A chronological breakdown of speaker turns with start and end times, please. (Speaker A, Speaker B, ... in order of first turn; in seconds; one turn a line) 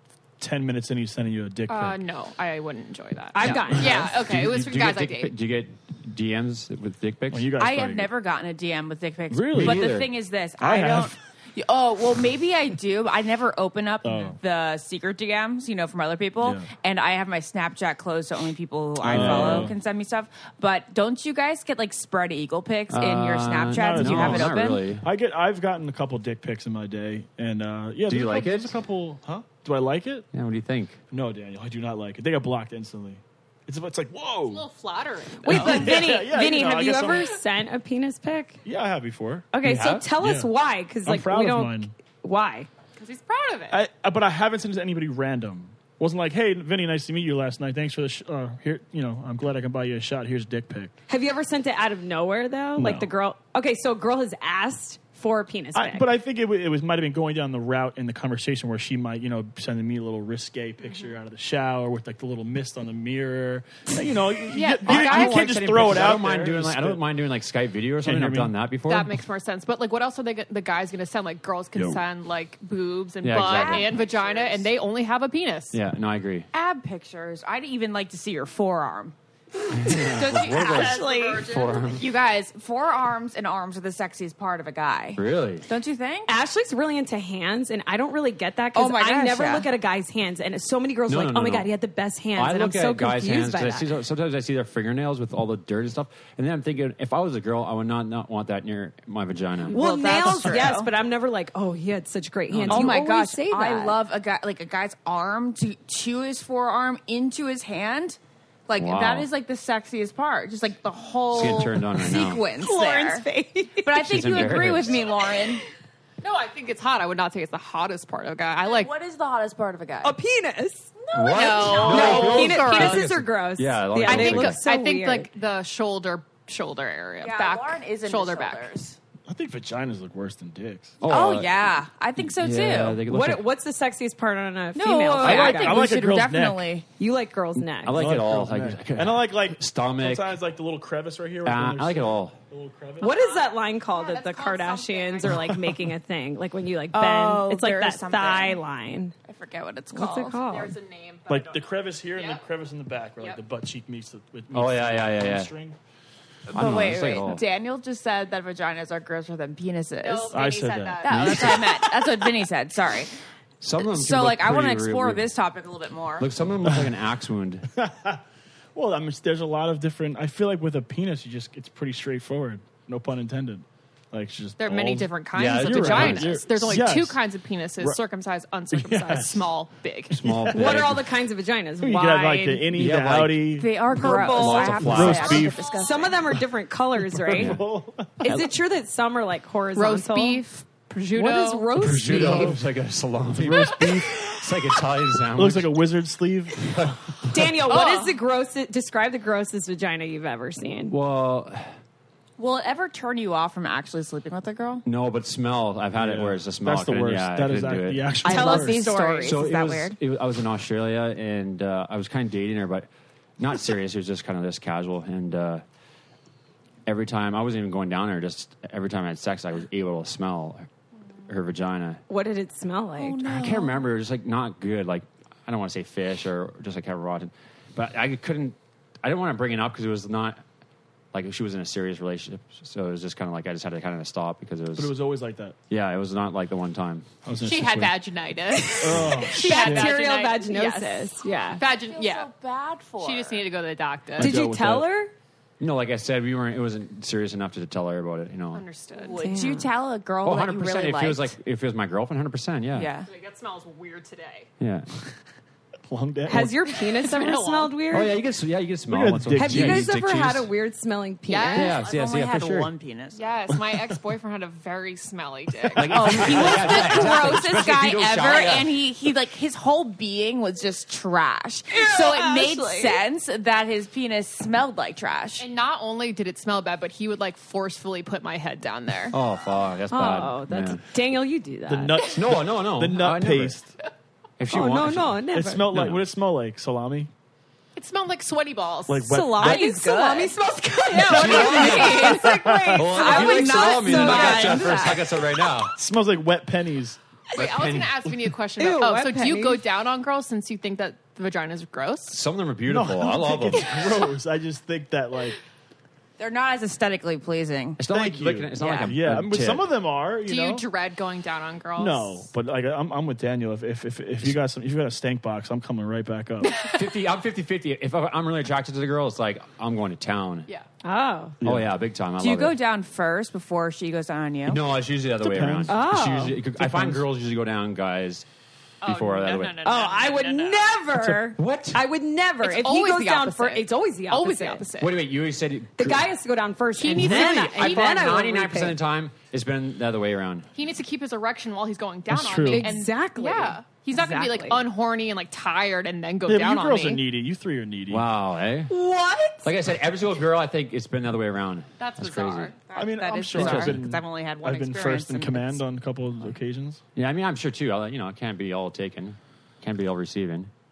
Speaker A: 0.4-2.0
Speaker B: 1.7-5.3
Speaker C: 3.3-4.1
Speaker A: 3.5-4.7
Speaker D: 4.3-7.5
Speaker A: 7.3-8.1
Speaker E: 7.6-24.8
Speaker A: 9.3-10.1
Speaker D: 9.5-10.1
Speaker A: 10.6-11.2
Speaker A: 14.0-14.4
Speaker A: 16.4-16.7
Speaker A: 19.0-19.8
Speaker D: 19.1-19.7
Speaker D: 22.9-25.1
Speaker A: 23.7-30.3
Speaker D: 28.1-28.8
Speaker D: 30.3-31.0
Speaker A: 31.1-34.7
Speaker B: 34.5-36.0
Speaker A: 35.5-37.3
Speaker C: 35.5-38.6
Speaker A: 38.6-39.5
Speaker C: 39.5-42.7
Speaker D: 39.6-40.1
Speaker A: 40.1-40.5
Speaker A: 41.0-41.9
Speaker B: 43.0-43.8
Speaker A: 43.7-50.9
Speaker C: 51.1-56.1
Speaker A: 52.8-53.1
Speaker A: 55.8-67.0
Speaker B: 64.5-65.8
Speaker D: 64.8-69.2
Speaker A: 68.0-68.5
Speaker B: 68.9-75.8
Speaker D: 73.2-74.0
Speaker E: 73.4-74.7
Speaker D: 75.7-76.5
Speaker E: 76.5-79.2
Speaker D: 79.7-82.1
Speaker E: 80.0-86.3
Speaker B: 80.6-82.0
Speaker C: 80.7-81.4
Speaker D: 85.2-85.7
Speaker C: 86.3-93.9
Speaker E: 88.8-89.7
Speaker D: 91.1-91.7
Speaker D: 92.4-99.8
Speaker E: 99.7-100.9
Speaker C: 99.7-104.0
Speaker D: 102.5-102.9
Speaker E: 102.7-113.3
Speaker D: 108.8-109.3
Speaker D: 111.3-112.4
Speaker C: 112.6-114.0
Speaker E: 113.8-115.6
Speaker D: 114.0-115.0
Speaker B: 116.2-118.9
Speaker E: 118.6-120.1
Speaker C: 120.0-120.9
Speaker D: 121.1-124.6
Speaker B: 121.2-123.1
Speaker E: 121.2-122.3
Speaker C: 121.7-125.3
Speaker B: 124.1-128.7
Speaker E: 127.2-129.0
Speaker A: 129.3-131.0
Speaker D: 131.0-131.7
Speaker E: 131.1-133.0
Speaker D: 132.3-133.5
Speaker C: 133.1-135.9
Speaker E: 134.8-136.9
Speaker A: 135.2-136.7
Speaker C: 137.0-138.0
Speaker D: 137.8-140.3
Speaker A: 137.9-143.2
Speaker D: 141.4-142.4
Speaker B: 143.0-145.5
Speaker C: 143.0-149.1
Speaker E: 146.9-148.6
Speaker E: 149.2-150.4
Speaker C: 149.9-150.8
Speaker B: 150.3-152.4
Speaker A: 151.3-155.8
Speaker D: 154.5-155.5
Speaker E: 156.5-160.3
Speaker D: 156.5-157.4
Speaker B: 160.0-161.9
Speaker A: 160.3-161.9
Speaker E: 161.0-163.1
Speaker D: 163.6-165.2
Speaker E: 163.8-166.3
Speaker D: 166.2-167.7
Speaker A: 167.8-168.2
Speaker A: 168.7-177.2
Speaker B: 174.6-180.2
Speaker D: 175.3-176.4
Speaker A: 178.7-179.5
Speaker D: 180.2-181.0
Speaker A: 180.2-180.9
Speaker C: 180.5-182.7
Speaker A: 181.8-183.7
Speaker D: 182.7-185.5
Speaker E: 183.6-186.2
Speaker C: 183.9-187.6
Speaker A: 184.6-185.7
Speaker A: 187.0-188.5
Speaker C: 188.2-190.4
Speaker B: 189.8-192.6
Speaker C: 191.1-192.5
Speaker D: 191.8-195.8
Speaker A: 192.1-192.6
Speaker A: 193.4-194.4
Speaker A: 195.3-196.8
Speaker C: 197.3-200.9
Speaker B: 197.7-198.2
Speaker D: 200.8-201.7
Speaker E: 202.4-204.8
Speaker D: 204.8-208.2
Speaker A: 206.0-208.9
Speaker E: 208.2-210.0
Speaker C: 208.2-209.4
Speaker D: 209.2-212.9
Speaker D: 213.4-215.6
Speaker D: 216.9-220.7
Speaker D: 221.3-222.0
Speaker C: 222.1-223.2
Speaker E: 223.0-223.9
Speaker D: 223.3-230.4
Speaker D: 231.1-234.9
Speaker A: 234.8-235.6
Speaker D: 235.7-237.1
Speaker A: 237.2-237.9
Speaker B: 237.3-240.6
Speaker C: 238.6-241.6
Speaker A: 238.8-240.0
Speaker E: 240.5-240.9
Speaker B: 241.6-242.3
Speaker E: 241.7-243.5
Speaker B: 243.0-244.3
Speaker A: 244.2-244.9
Speaker C: 244.2-245.1
Speaker D: 245.6-248.7
Speaker B: 248.5-249.3
Speaker E: 249.0-251.3
Speaker C: 249.0-249.7
Speaker D: 250.2-252.9
Speaker E: 252.8-253.1
Speaker B: 253.1-254.5
Speaker D: 254.6-254.9
Speaker A: 255.9-256.6
Speaker C: 256.3-258.1
Speaker B: 257.0-257.9
Speaker D: 257.9-260.4
Speaker A: 258.9-260.5
Speaker C: 259.4-261.8
Speaker B: 261.3-261.8
Speaker E: 261.5-263.2
Speaker D: 261.6-262.7
Speaker B: 263.1-267.1
Speaker A: 263.6-263.8
Speaker D: 265.8-268.7
Speaker E: 265.9-275.5
Speaker A: 265.9-266.3
Speaker B: 271.8-272.7
Speaker C: 272.3-272.7
Speaker B: 275.4-279.2
Speaker D: 279.1-280.8
Speaker C: 279.9-282.0
Speaker A: 281.7-283.7
Speaker D: 282.1-283.6
Speaker D: 284.4-286.0
Speaker C: 284.5-285.7
Speaker A: 285.3-287.1
Speaker B: 287.8-290.4
Speaker A: 288.9-289.6
Speaker C: 289.1-295.0
Speaker B: 290.9-292.4
Speaker D: 291.1-292.2
Speaker A: 291.3-292.9
Speaker D: 292.8-295.8
Speaker B: 292.9-294.9
Speaker E: 293.1-294.8
Speaker A: 295.7-297.0
Speaker B: 297.4-302.2
Speaker D: 297.4-298.0
Speaker C: 298.6-299.6
Speaker D: 302.1-303.7
Speaker A: 302.7-305.4
Speaker E: 306.2-307.8
Speaker D: 307.8-309.7
Speaker A: 307.9-310.6
Speaker E: 308.6-308.9
Speaker B: 310.2-312.3
Speaker A: 311.8-316.6
Speaker D: 316.7-320.5
Speaker C: 320.8-321.4
Speaker A: 321.4-321.7
Speaker D: 321.4-322.6
Speaker E: 322.2-324.6
Speaker D: 324.5-328.3
Speaker A: 325.2-325.8
Speaker C: 325.7-326.4
Speaker A: 326.6-327.0
Speaker B: 328.8-330.7
Speaker D: 328.8-329.6
Speaker C: 329.6-334.6
Speaker D: 331.4-331.8
Speaker B: 332.4-335.0
Speaker D: 334.8-336.1
Speaker C: 335.8-338.8
Speaker B: 336.8-338.7
Speaker D: 337.0-340.5
Speaker B: 340.6-347.0
Speaker A: 342.1-342.7
Speaker C: 342.5-344.6
Speaker A: 346.3-348.0
Speaker D: 347.9-348.7
Speaker E: 348.7-349.5
Speaker D: 349.4-352.5
Speaker B: 351.8-352.7
Speaker A: 352.7-356.8
Speaker E: 352.8-355.6
Speaker D: 353.4-353.8
Speaker D: 357.0-360.5